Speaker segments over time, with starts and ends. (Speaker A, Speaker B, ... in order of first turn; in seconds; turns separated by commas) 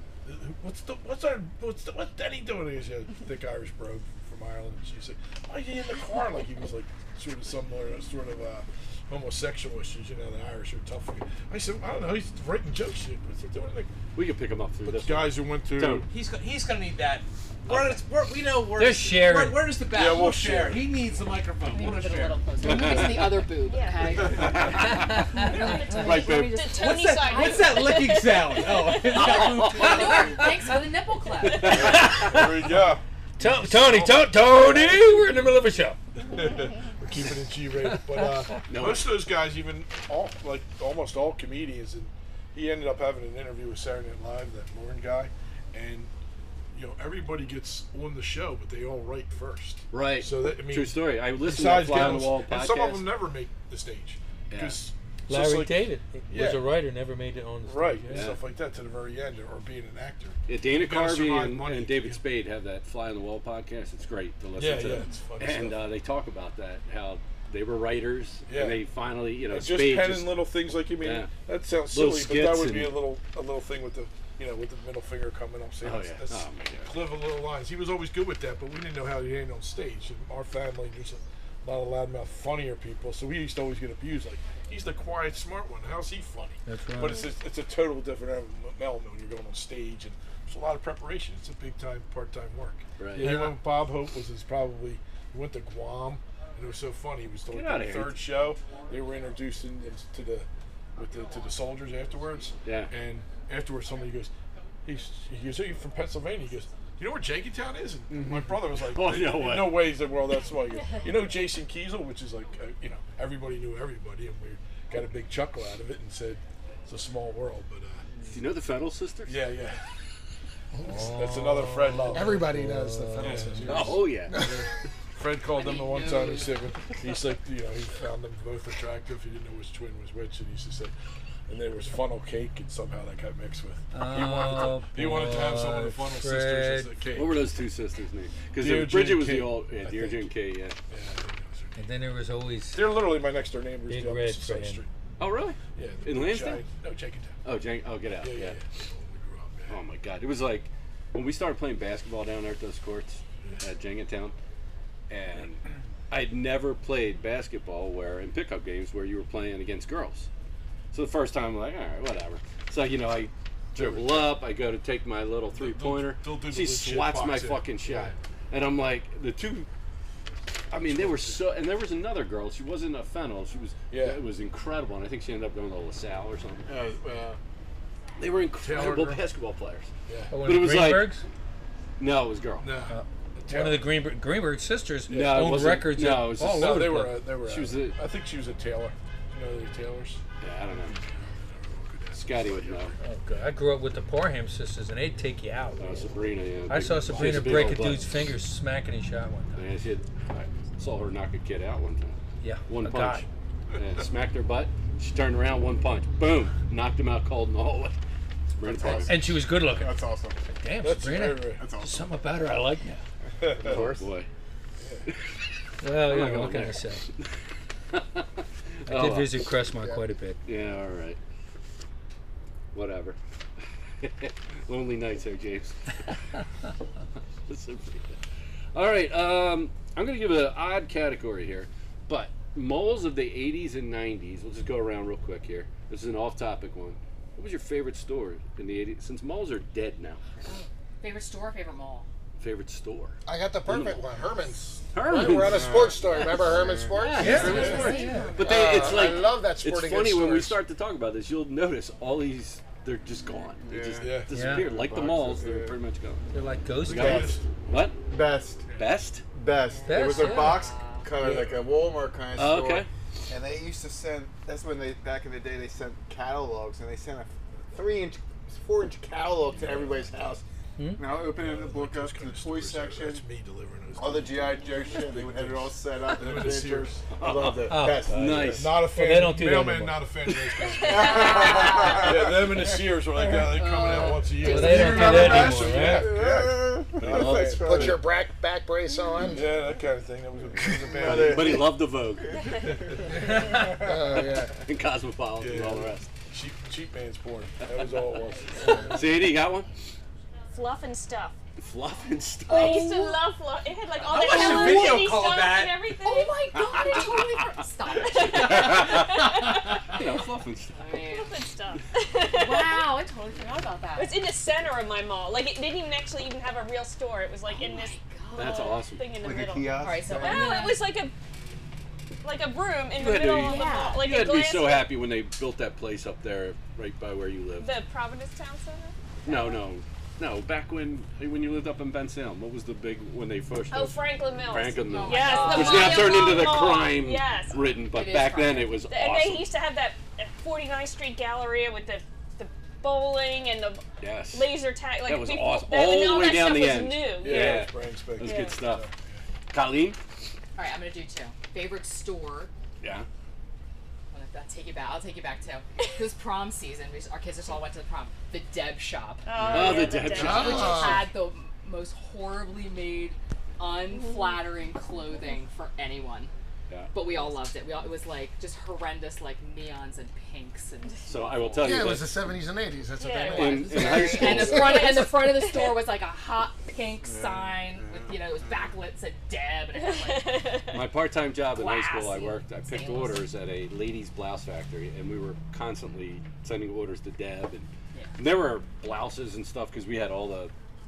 Speaker A: 0.2-13.9, Speaker B: 14.1-16.1, Speaker A: 14.8-16.1, Speaker C: 16.1-22.5, Speaker B: 17.6-18.0, Speaker D: 18.7-19.7, Speaker A: 19.9-20.9, Speaker E: 21.7-28.0, Speaker B: 22.6-23.4, Speaker F: 23.6-29.6, Speaker B: 24.4-24.9, Speaker B: 25.9-26.7, Speaker C: 26.8-30.4, Speaker E: 29.1-32.0, Speaker B: 29.1-30.2, Speaker B: 31.5-32.0, Speaker A: 31.6-35.2, Speaker D: 31.6-32.7, Speaker D: 33.4-36.0, Speaker A: 36.2-46.1, Speaker B: 38.7-39.1, Speaker A: 46.7-56.7, Speaker B: 49.9-53.1, Speaker B: 54.5-54.8, Speaker D: 55.3-58.3, Speaker A: 57.6-62.2, Speaker B: 58.1-58.4, Speaker B: 60.5-70.4, Speaker A: 64.6-65.9, Speaker A: 68.5-68.8, Speaker A: 69.5-104.3, Speaker B: 71.0-71.3, Speaker B: 71.9-73.0, Speaker B: 75.8-76.9, Speaker D: 86.7-87.3, Speaker B: 93.0-93.5, Speaker D: 93.2-93.5, Speaker B: 97.5-98.2, Speaker B: 102.6-102.9, Speaker A: 104.8-118.0, Speaker G: 108.1-108.3, Speaker B: 108.9-109.9, Speaker B: 118.3-119.4, Speaker A: 119.2-119.8, Speaker D: 120.8-123.8, Speaker A: 120.9-122.5, Speaker H: 122.1-124.7, Speaker A: 123.2-130.9, Speaker B: 123.7-124.4, Speaker E: 125.6-126.6, Speaker A: 131.5-137.5, Speaker D: 133.9-136.9, Speaker B: 137.1-140.8, Speaker A: 138.6-140.3, Speaker A: 140.9-141.8, Speaker D: 141.8-143.0, Speaker A: 142.7-144.9, Speaker D: 143.9-144.8, Speaker B: 145.2-146.6, Speaker A: 145.7-147.3, Speaker B: 147.4-148.6, Speaker A: 148.2-149.8, Speaker B: 149.7-154.3, Speaker B: 155.1-160.3, Speaker B: 160.9-169.7, Speaker A: 163.7-164.4, Speaker A: 165.5-168.1, Speaker B: 170.7-176.7, Speaker A: 170.8-171.4, Speaker A: 173.9-174.2, Speaker G: 176.7-177.4, Speaker B: 178.2-179.9, Speaker A: 178.6-179.2, Speaker A: 180.1-180.4, Speaker D: 180.3-181.2, Speaker B: 180.4-181.1, Speaker B: 182.0-182.7, Speaker A: 182.6-183.9, Speaker D: 182.9-187.2, Speaker A: 185.1-185.8, Speaker B: 185.1-186.8, Speaker A: 186.4-190.2, Speaker B: 187.4-188.0, Speaker B: 190.4-191.0, Speaker A: 190.8-193.0, Speaker B: 192.1-192.9, Speaker D: 193.0-195.8, Speaker B: 195.8-198.0, Speaker D: 196.7-199.7, Speaker A: 197.2-197.5, Speaker B: 199.6-202.1, Speaker D: 202.4-203.2, Speaker B: 202.7-208.0, Speaker B: 208.5-209.2, Speaker G: 208.6-210.4, Speaker D: 209.1-213.0, Speaker A: 210.8-211.7, Speaker G: 211.6-212.1, Speaker A: 213.4-214.0, Speaker B: 213.5-214.3, Speaker A: 214.8-215.1, Speaker D: 215.8-217.0, Speaker B: 216.0-217.3, Speaker B: 217.9-218.2, Speaker B: 218.8-219.4, Speaker D: 218.9-220.4, Speaker B: 220.4-221.2, Speaker B: 222.7-223.2, Speaker B: 224.0-225.8, Speaker B: 227.5-228.2, Speaker B: 228.7-240.2, Speaker E: 240.4-242.1, Speaker B: 242.4-244.0, Speaker H: 243.2-247.8, Speaker B: 244.9-245.9, Speaker G: 245.4-247.7, Speaker B: 246.9-256.3, Speaker D: 247.2-248.3, Speaker E: 247.3-248.3, Speaker F: 247.5-249.0, Speaker H: 248.3-250.6, Speaker G: 253.6-255.8, Speaker A: 254.0-254.5, Speaker D: 254.3-254.7, Speaker D: 256.3-257.4, Speaker A: 256.8-257.4, Speaker B: 256.9-258.0, Speaker G: 256.9-257.3, Speaker G: 258.1-258.7, Speaker B: 258.7-259.2, Speaker G: 259.3-270.4, Speaker E: 259.8-261.1, Speaker D: 259.9-260.7, Speaker A: 261.2-261.6, Speaker B: 262.4-262.9, Speaker D: 270.8-271.0, Speaker G: 271.0-273.2, Speaker A: 271.3-277.1, Speaker G: 273.9-278.6, Speaker B: 277.1-278.8, Speaker D: 277.6-280.0, Speaker A: 278.5-288.0, Speaker G: 280.8-282.8, Speaker F: 280.8-281.6, Speaker E: 281.1-282.0, Speaker E: 283.2-285.7, Speaker D: 284.4-286.1, Speaker G: 285.7-288.0, Speaker B: 287.0-287.8, Speaker H: 287.6-289.5, Speaker A: 289.2-291.7, Speaker G: 290.6-293.0, Speaker B: 291.0-292.3, Speaker F: 292.3-292.6, Speaker A: 292.6-293.0, Speaker H: 293.5-294.5, Speaker B: 294.6-296.1, Speaker A: 295.4-299.1, Speaker B: 298.9-299.7, Speaker F: 300.5-301.4, Speaker B: 301.6-302.9, Speaker E: 302.5-303.2, Speaker F: 302.5-307.2, Speaker C: 304.0-305.8, Speaker E: 304.3-305.0, Speaker E: 306.0-309.2, Speaker F: 308.1-309.6, Speaker B: 308.3-309.2, Speaker B: 309.9-310.8, Speaker E: 310.7-311.4, Speaker F: 310.9-313.0, Speaker E: 312.3-314.1, Speaker F: 313.9-321.1, Speaker E: 317.4-318.8, Speaker B: 318.3-319.1, Speaker G: 319.2-320.6, Speaker E: 319.8-320.8, Speaker F: 322.2-324.9, Speaker B: 322.9-327.7, Speaker E: 323.3-324.0, Speaker F: 327.6-328.9, Speaker B: 329.2-339.5, Speaker F: 333.7-337.7, Speaker E: 334.8-336.5, Speaker E: 337.9-338.9, Speaker F: 338.8-348.6, Speaker B: 344.0-344.5, Speaker B: 345.0-348.8, Speaker A: 347.2-349.2, Speaker B: 349.5-350.0, Speaker E: 350.6-352.5, Speaker B: 352.8-353.1, Speaker E: 354.1-366.3, Speaker F: 359.2-361.1, Speaker B: 359.5-361.1, Speaker H: 360.2-361.1, Speaker F: 363.9-364.4, Speaker E: 366.9-371.9, Speaker B: 371.1-372.3, Speaker H: 371.6-374.6, Speaker F: 372.9-375.9, Speaker B: 373.3-375.0, Speaker E: 373.5-380.6, Speaker G: 377.0-378.7, Speaker F: 379.7-380.9, Speaker B: 380.7-390.5, Speaker E: 381.4-383.3